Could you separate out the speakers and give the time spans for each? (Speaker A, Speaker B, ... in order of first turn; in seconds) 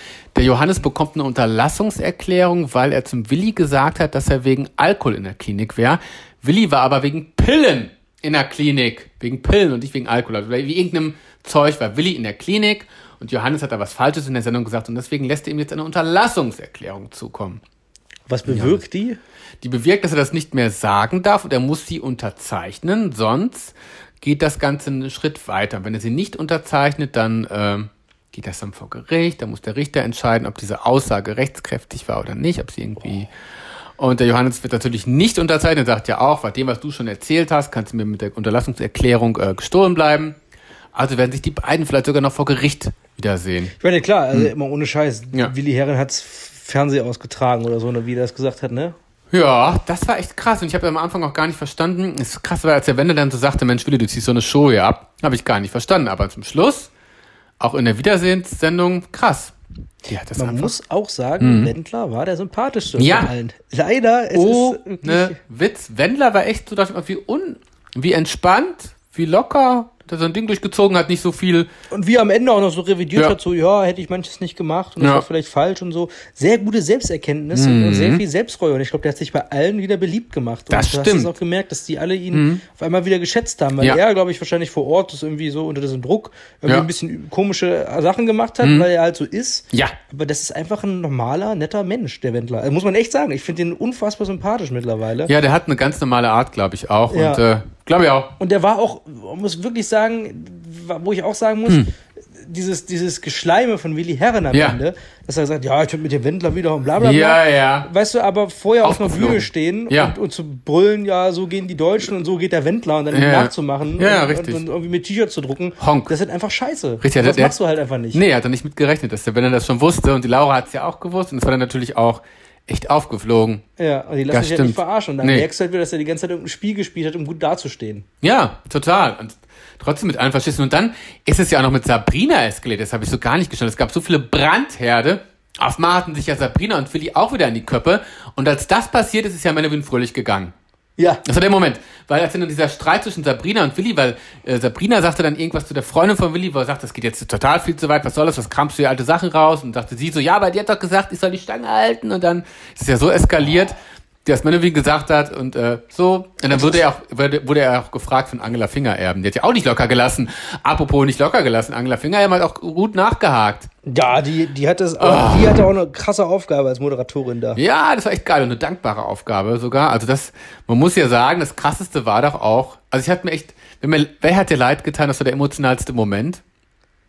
Speaker A: 0.3-17.6, 18.4-18.8, 19.6-33.3, 34.0-40.4, 40.9-43.7, 49.3-56.9, 57.6-60.8, 61.4-61.7, 63.0-63.3, 64.3-71.7, 75.0-75.2, 77.5-78.2, 80.7-81.3, 82.3-82.6, 88.6-88.9, 89.7-90.0, 95.2-98.3, 104.5-104.8, 107.0-107.9, 108.8-110.1, 113.1-114.6, 115.8-116.1, 117.0-117.5, 118.1-123.6, 124.3-125.5, 128.2-140.5, 141.2-163.7, 165.0-165.7, 167.6-176.4
Speaker B: 18.3-19.2, 43.8-49.0, 60.3-65.4, 71.9-95.3, 97.1-97.4, 98.4-118.2, 123.8-128.1, 141.0-141.2, 156.5-156.8, 163.8-167.6